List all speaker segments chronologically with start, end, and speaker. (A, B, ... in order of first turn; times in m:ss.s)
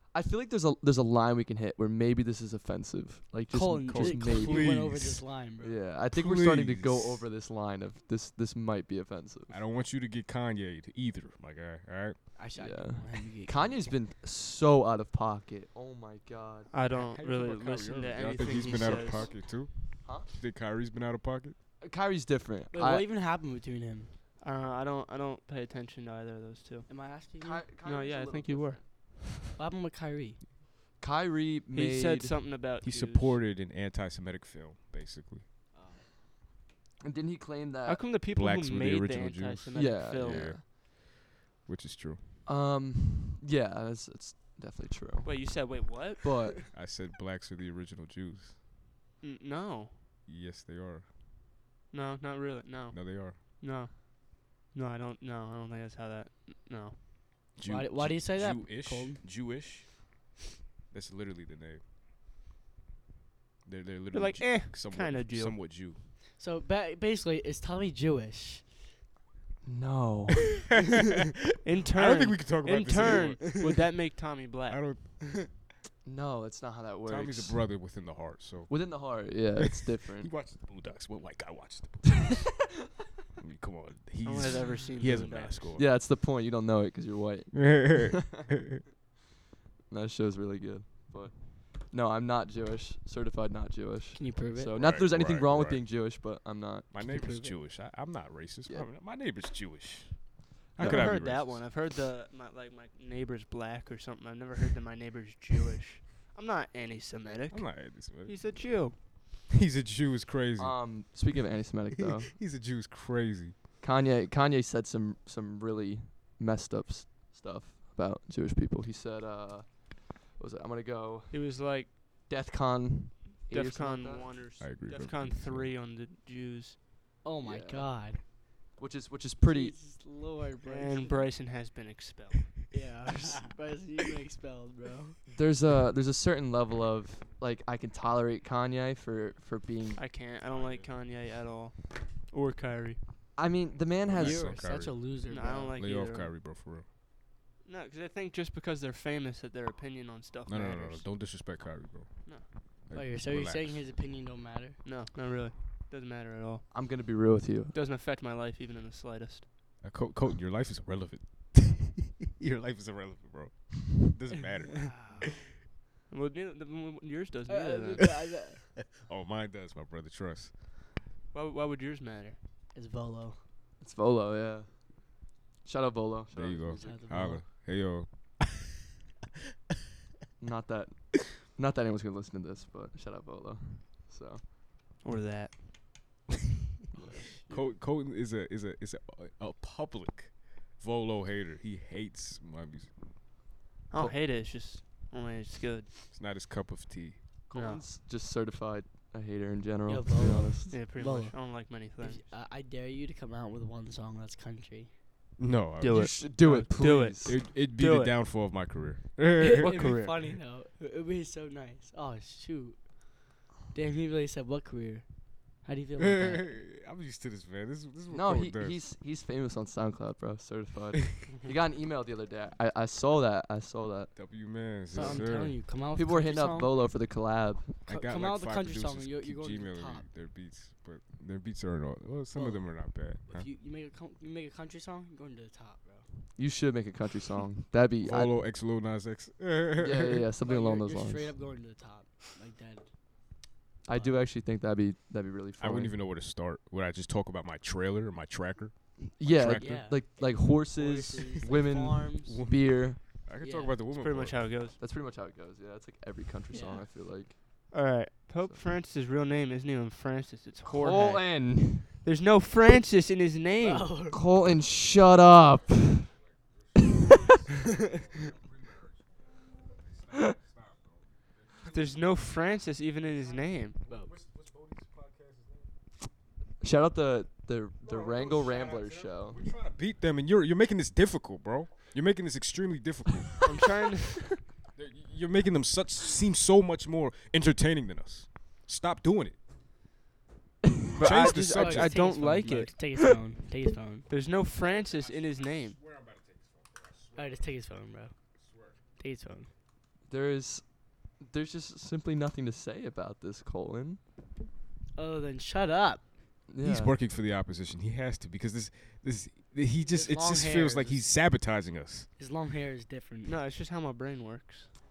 0:00.1-0:04.9 A
0:03.5-0:05.8 B
0:03.9-0:05.3 C
0:05.6-0:09.6 A
0:06.1-0:07.2 C
0:09.5-0:12.3 C
0:12.4-0:13.8 B
0:12.6-0:16.7 A
0:16.7-0:19.3 D
0:16.9-0:21.6 C
0:18.6-0:19.5 A
0:20.0-0:20.3 A
0:21.8-0:23.1 A
0:22.7-0:24.2 B
0:24.4-0:26.9 D
0:26.9-0:27.7 B
0:27.4-0:28.8 A
0:27.8-0:28.8 D
0:29.4-0:30.4 B
0:31.0-0:32.4 A
0:31.7-0:33.4 D
0:32.8-0:35.4 C
0:35.7-0:36.0 B
0:37.0-0:38.1 A
0:37.9-0:40.6 D
0:38.3-0:42.2 C
0:39.7-0:40.6 A
0:42.4-0:46.6 A
0:45.2-0:46.4 D
0:46.7-0:48.6 C
0:49.2-0:50.0 D
0:50.3-0:51.1 C
0:51.9-0:57.0 D
0:52.9-0:53.4 C
0:57.6-1:00.1 C
0:57.6-0:59.2 B
1:00.9-1:01.8 C
1:03.6-1:06.0 C
1:04.1-1:05.6 D
1:06.4-1:08.7 B
1:09.6-1:10.6 A
1:11.6-1:14.9 D
1:11.9-1:13.6 C
1:14.7-1:15.5 C
1:16.0-1:17.7 A
1:17.1-1:22.7 C
1:18.7-1:20.3 A
1:23.4-1:25.9 C
1:24.2-1:25.7 D
1:25.8-1:28.2 A
1:27.5-1:28.6 C
1:29.9-1:36.9 A
1:34.2-1:34.8 B
1:34.7-1:35.8 C
1:36.9-1:41.7 C
1:37.0-1:37.6 B
1:40.8-1:49.0 D
1:40.8-1:41.1 A
1:47.5-1:50.9 C
1:50.6-1:52.3 A
1:52.3-1:53.6 C
1:53.8-2:01.6 A
2:01.3-2:01.9 D
2:02.3-2:04.3 A
2:03.5-2:06.8 D
2:04.6-2:05.7 C
2:07.2-2:08.2 B
2:07.4-2:08.0 A
2:08.8-2:09.8 A
2:09.4-2:11.3 B
2:10.7-2:12.6 D
2:12.7-2:15.2 B
2:15.3-2:20.1 A
2:20.0-2:23.0 D
2:20.4-2:20.9 C
2:23.4-2:24.6 A
2:24.1-2:25.2 C
2:24.2-2:25.8 B
2:25.3-2:26.3 D
2:25.7-2:26.9 C
2:27.6-2:31.0 D
2:30.5-2:33.8 C
2:32.9-2:34.8 B
2:34.8-2:36.7 D
2:36.7-2:37.8 A
2:37.7-2:39.5 D
2:39.8-2:45.3 C
2:45.0-2:45.3 D
2:46.1-2:48.2 D
2:47.5-2:48.7 B
2:49.0-2:50.6 C
2:51.3-2:52.4 D
2:52.7-2:53.4 B
2:53.8-2:57.0 A
2:56.3-2:58.4 C
2:56.8-2:57.4 B
3:00.4-3:04.4 A
3:05.0-3:05.8 D
3:06.9-3:07.4 A
3:07.5-3:13.0 C
3:13.9-3:16.0 D
3:16.1-3:17.2 C
3:17.5-3:20.8 A
3:17.5-3:17.8 D
3:19.9-3:24.9 B
3:20.7-3:22.2 D
3:25.4-3:26.1 C
3:25.8-3:28.2 D
3:25.9-3:27.4 A
3:27.2-3:30.0 C
3:29.4-3:36.6 B
3:29.6-3:30.2 D
3:36.0-3:38.8 C
3:38.1-3:44.1 A
3:44.2-3:45.6 C
3:44.9-3:46.8 B
3:45.0-3:45.2 A
3:46.0-3:47.8 A
3:47.9-3:50.1 B
3:47.9-3:53.5 C
3:52.3-3:56.1 B
3:56.4-3:58.4 A
3:58.0-4:00.2 C
3:59.8-4:01.3 A
4:00.4-4:02.9 B
4:03.8-4:06.0 A
4:03.9-4:04.2 B
4:05.6-4:09.8 C
4:09.1-4:13.0 A
4:09.6-4:12.4 B
4:12.3-4:14.5 C
4:13.4-4:13.8 B
4:13.9-4:14.8 D
4:14.8-4:17.4 A
4:16.5-4:16.8 B
4:17.7-4:23.9 D
4:20.6-4:21.9 A
4:23.6-4:24.2 B
4:24.1-4:26.1 A
4:26.3-4:29.3 C
4:29.8-4:32.1 C
4:31.7-4:33.8 D
4:33.1-4:35.7 C
4:36.6-4:39.4 A
4:37.8-4:43.5 C
4:43.4-4:44.4 D
4:44.8-4:49.4 C
4:51.0-4:52.7 D
4:51.0-4:52.2 C
4:51.5-4:54.1 B
4:54.1-4:55.8 D
4:54.6-4:57.5 C
4:57.2-4:58.2 B
4:58.4-4:58.8 C
4:59.0-4:59.5 B
5:00.1-5:04.0 A
5:05.0-5:06.1 B
5:06.5-5:07.0 A
5:06.6-5:12.1 C
5:09.8-5:11.0 B
5:12.2-5:13.4 B
5:13.2-5:14.7 D